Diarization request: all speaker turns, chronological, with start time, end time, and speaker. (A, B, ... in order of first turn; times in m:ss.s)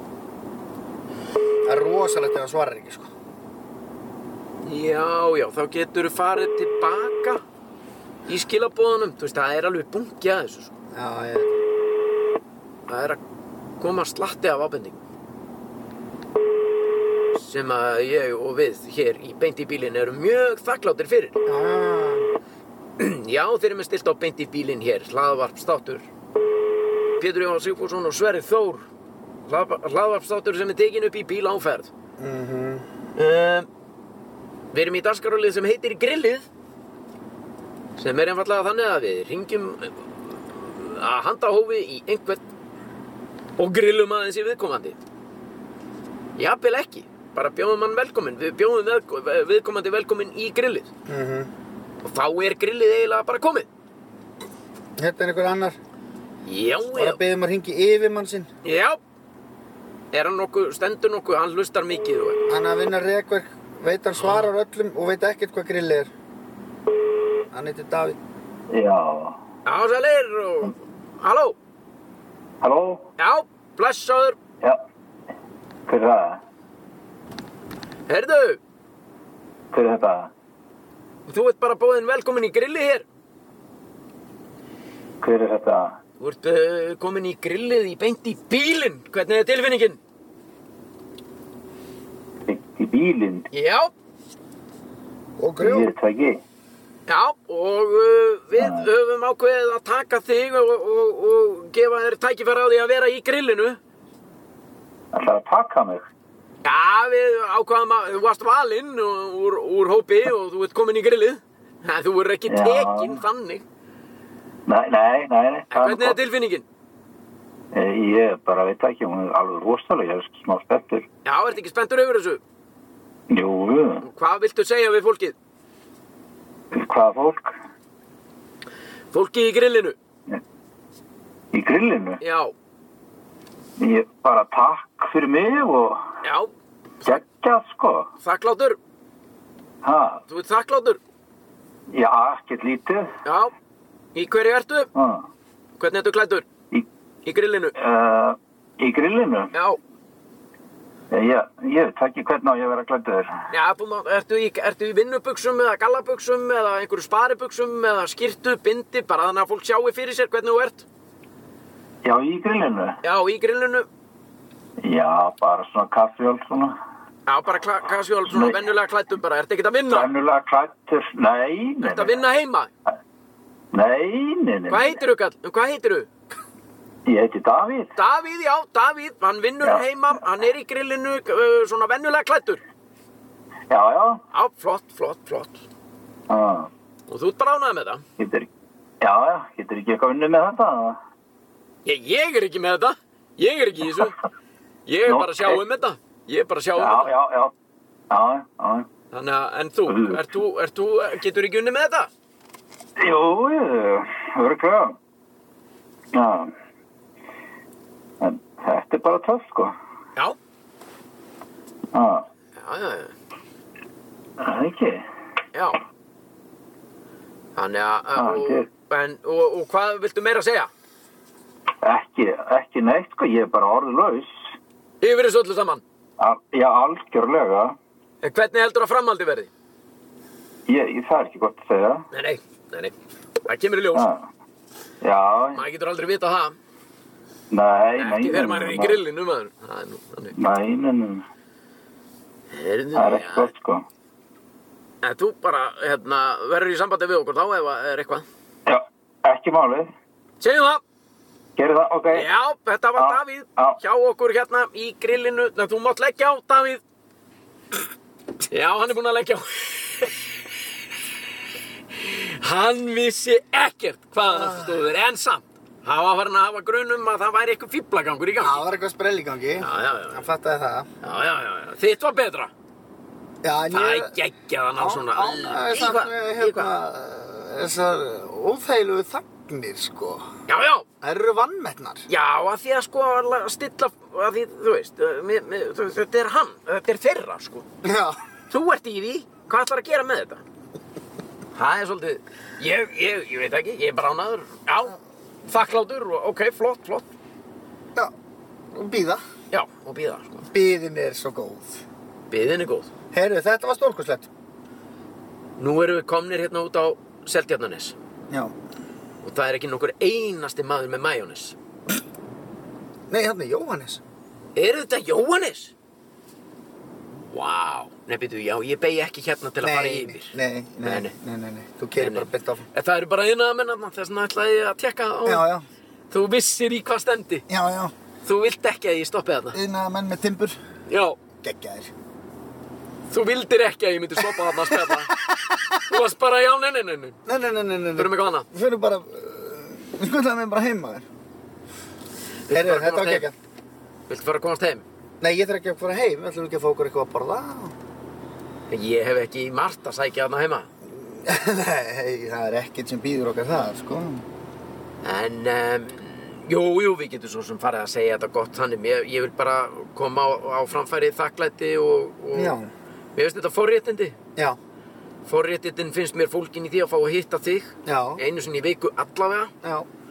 0:01.6-0:03.1 A
0:04.6-0:07.4 B
0:08.3-0:10.7 B
0:10.9-0:11.6 A
0:12.9-0:13.2 B
0:13.8-0:15.0 B
0:17.3-0:21.4 B
0:21.4-0:22.3 A
0:23.0-0:26.1 B
0:27.2-0:28.9 B
0:29.5-0:31.9 B
0:32.2-0:32.8 A
0:33.2-0:33.7 B
0:34.7-0:36.4 B
0:38.0-0:42.4 B
0:43.6-0:45.0 B
0:46.4-0:50.9 B
0:51.1-0:51.5 A
0:52.0-0:53.7 B
0:55.0-0:55.8 A
0:56.4-0:57.2 B
0:56.9-0:58.5 A
0:58.6-0:59.0 B
1:00.1-1:02.4 B
1:02.5-1:06.1 A
1:04.2-1:04.5 B
1:07.5-1:08.2 A
1:08.7-1:09.4 C
1:09.6-1:11.6 B
1:12.6-1:13.0 C
1:13.2-1:14.4 B
1:15.9-1:16.4 C
1:18.1-1:18.6 B
1:19.7-1:20.3 C
1:21.3-1:23.0 B
1:25.2-1:26.0 C
1:26.2-1:30.0 B
1:32.5-1:33.5 C
1:33.5-1:33.9 B
1:35.4-1:35.9 A
1:35.6-1:36.4 C
1:37.1-1:43.8 B
1:38.6-1:38.8 C
1:45.1-1:46.0 C
1:46.6-1:53.6 B
1:52.5-1:53.2 C
1:54.7-1:56.2 C
1:55.7-1:56.6 B
1:57.7-2:01.0 C
2:01.2-2:02.4 B
2:03.3-2:04.0 C
2:04.0-2:05.3 B
2:06.7-2:07.6 C
2:09.1-2:10.0 B
2:11.5-2:12.2 C
2:12.2-2:12.5 B
2:13.8-2:16.0 C
2:16.2-2:17.2 B
2:17.0-2:18.1 C
2:18.2-2:18.8 B
2:19.8-2:20.2 C
2:20.3-2:21.0 B
2:21.9-2:23.1 C
2:23.2-2:23.5 B
2:24.1-2:24.9 B
2:24.9-2:25.3 C
2:25.8-2:26.4 B
2:27.2-2:27.7 B
2:27.7-2:29.5 C
2:29.5-2:29.8 B
2:31.1-2:33.3 C
2:33.5-2:40.8 B
2:42.0-2:43.0 C
2:43.0-2:43.9 B
2:44.8-2:46.8 C
2:47.3-2:50.1 B
2:48.3-2:48.6 C
2:49.9-2:52.2 C
2:51.8-2:52.7 B
2:53.7-2:55.0 C
2:54.7-2:56.1 B
2:57.1-2:57.9 C
2:58.0-3:02.6 B
3:03.7-3:04.2 C
3:04.3-3:05.6 B
3:06.3-3:06.7 C
3:07.1-3:08.0 B
3:08.2-3:08.5 C
3:09.0-3:11.0 C
3:11.8-3:14.2 B
3:14.8-3:17.1 B
3:15.0-3:15.6 C
3:16.7-3:17.5 C
3:18.1-3:18.9 C
3:19.1-3:22.1 B
3:19.9-3:20.3 C
3:23.0-3:25.0 C
3:26.1-3:26.5 C
3:28.2-3:29.8 C
3:31.9-3:32.2 C
3:32.6-3:33.1 B
3:34.4-3:35.0 C
3:35.5-3:35.8 B
3:37.6-3:40.7 B
3:38.2-3:38.7 C
3:41.8-3:44.5 C
3:45.0-3:45.8 B
3:46.2-3:47.8 C
3:48.2-3:49.5 B
3:50.7-3:52.0 C
3:52.1-3:52.9 B
3:53.4-3:54.1 B
3:53.9-3:54.3 C
3:55.0-3:55.6 C
3:55.5-3:56.6 B
3:57.5-3:59.0 C
3:58.0-4:00.4 B
4:00.4-4:01.2 C
4:02.5-4:03.5 B
4:02.9-4:03.8 C
4:05.0-4:08.2 B
4:08.6-4:09.9 C
4:10.4-4:10.8 B
4:11.6-4:12.3 C
4:12.1-4:16.8 B
4:13.0-4:13.8 C
4:18.5-4:20.3 B
4:21.9-4:28.6 B
4:24.2-4:24.8 A
4:28.4-4:30.9 A
4:29.6-4:30.2 B
4:31.0-4:32.5 B
4:33.4-4:34.1 A
4:33.7-4:36.7 B
4:34.8-4:40.3 A
4:40.5-4:40.8 B
4:41.0-4:42.0 A
4:42.1-4:47.6 B
4:47.8-4:48.2 A
4:48.5-4:50.4 B
4:51.5-4:57.1 B
4:58.7-4:59.2 A
4:59.5-5:00.5 B
5:00.5-5:01.8 A
5:02.3-5:02.9 B
5:03.1-5:04.3 A
5:05.6-5:07.9 B
5:08.3-5:08.5 A
5:09.2-5:11.6 B
5:13.1-5:14.0 A
5:14.6-5:15.7 B
5:17.3-5:21.1 B
5:19.6-5:22.6 A
5:22.0-5:25.5 B
5:25.2-5:25.7 A
5:26.1-5:27.4 B
5:27.5-5:27.9 A
5:28.2-5:29.6 B
5:29.5-5:30.6 A
5:30.9-5:31.2 B
5:31.4-5:31.9 A
5:33.1-5:37.2 B
5:34.7-5:36.0 A
5:37.2-5:41.0 A
5:38.0-5:38.5 B
5:42.5-5:43.3 B
5:42.5-5:43.3 A
5:44.1-5:44.8 B
5:45.2-5:47.7 A
5:48.7-5:50.7 B
5:50.8-5:54.2 A
5:55.0-6:02.6 B
6:02.3-6:02.7 A
6:03.2-6:04.2 B
6:05.2-6:09.5 B
6:07.8-6:08.2 A